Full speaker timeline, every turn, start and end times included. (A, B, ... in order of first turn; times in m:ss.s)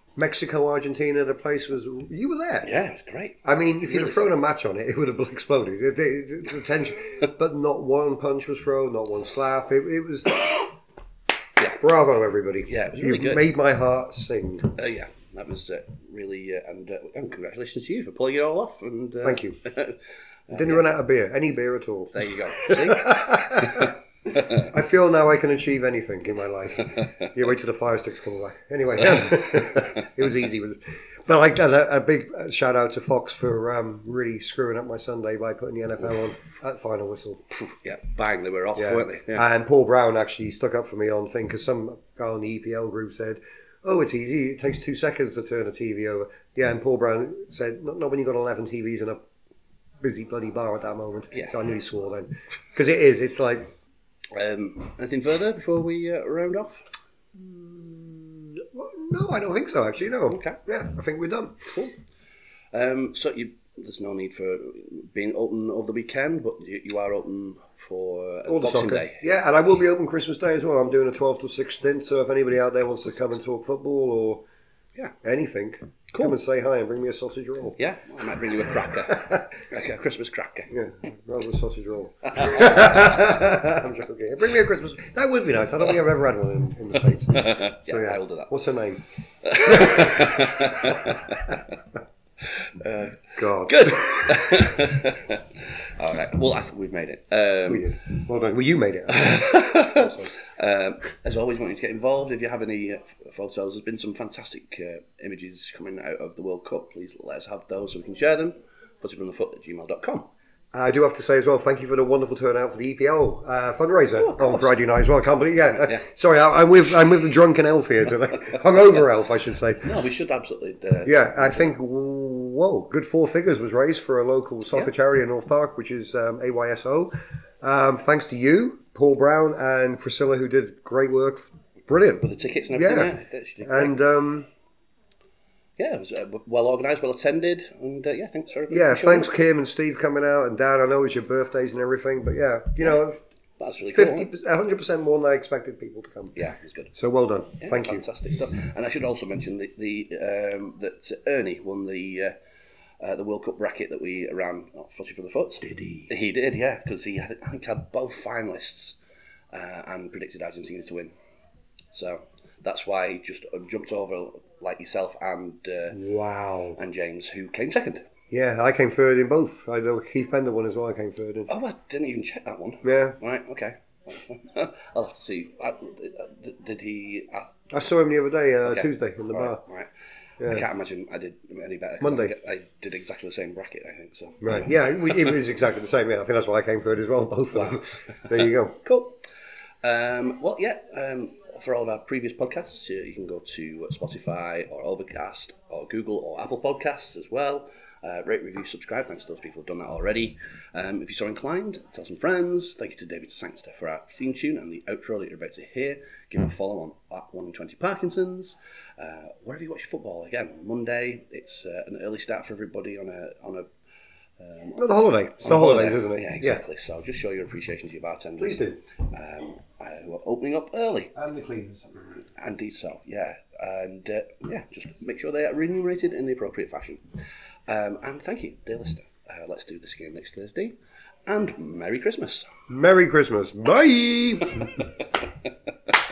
0:00.2-0:02.7 A
0:02.6-0:04.3 B
0:03.4-0:10.8 A
0:11.8-0:14.7 A
0:12.7-0:13.5 B
0:14.7-0:20.8 B
0:19.2-0:19.6 A
0:20.5-0:24.0 A
0:22.1-0:24.7 B
0:24.6-0:37.4 A
0:26.9-0:27.3 B
0:37.6-0:39.4 B
0:38.8-0:49.2 A
0:50.0-0:53.7 A
0:54.3-0:56.9 B
0:57.3-1:01.8 A
1:00.3-1:00.6 B
1:02.7-1:09.3 B
1:08.5-1:14.4 A
1:15.2-1:17.8 A
1:17.8-1:20.8 B
1:18.6-1:19.5 A
1:20.7-1:31.2 A
1:22.2-1:23.4 B
1:27.3-1:28.5 B
1:29.4-1:31.8 B
1:32.4-1:38.0 B
1:33.4-1:34.6 A
1:37.7-1:40.3 A
1:39.1-1:50.3 B
1:50.7-1:59.9 A
1:54.2-1:54.7 B
1:59.8-2:01.7 B
2:01.0-2:14.5 A
2:12.2-2:14.0 B
2:15.8-2:19.3 B
2:18.7-2:23.2 A
2:23.6-2:24.3 B
2:23.9-2:26.4 A
2:26.4-2:26.9 B
2:26.9-2:28.0 A
2:27.6-2:32.3 B
2:33.0-2:39.0 B
2:35.6-2:36.1 A
2:39.5-2:41.1 B
2:41.9-2:46.0 B
2:45.9-2:46.8 A
2:46.7-2:48.1 B
2:48.3-2:51.5 A
2:51.5-2:57.5 B
2:52.8-2:53.2 A
2:57.7-2:59.6 A
2:58.6-2:59.9 B
3:00.4-3:00.6 A
3:00.4-3:05.3 B
3:02.0-3:02.3 A
3:04.4-3:08.8 A
3:08.8-3:09.2 B
3:09.8-3:33.7 B
3:34.4-3:34.8 B
3:34.7-3:36.6 A
3:35.4-3:41.1 B
3:38.4-3:38.8 A
3:41.1-3:42.1 A
3:42.3-3:47.0 B
3:47.7-3:50.8 B
3:51.3-3:52.5 B
3:52.7-3:55.0 A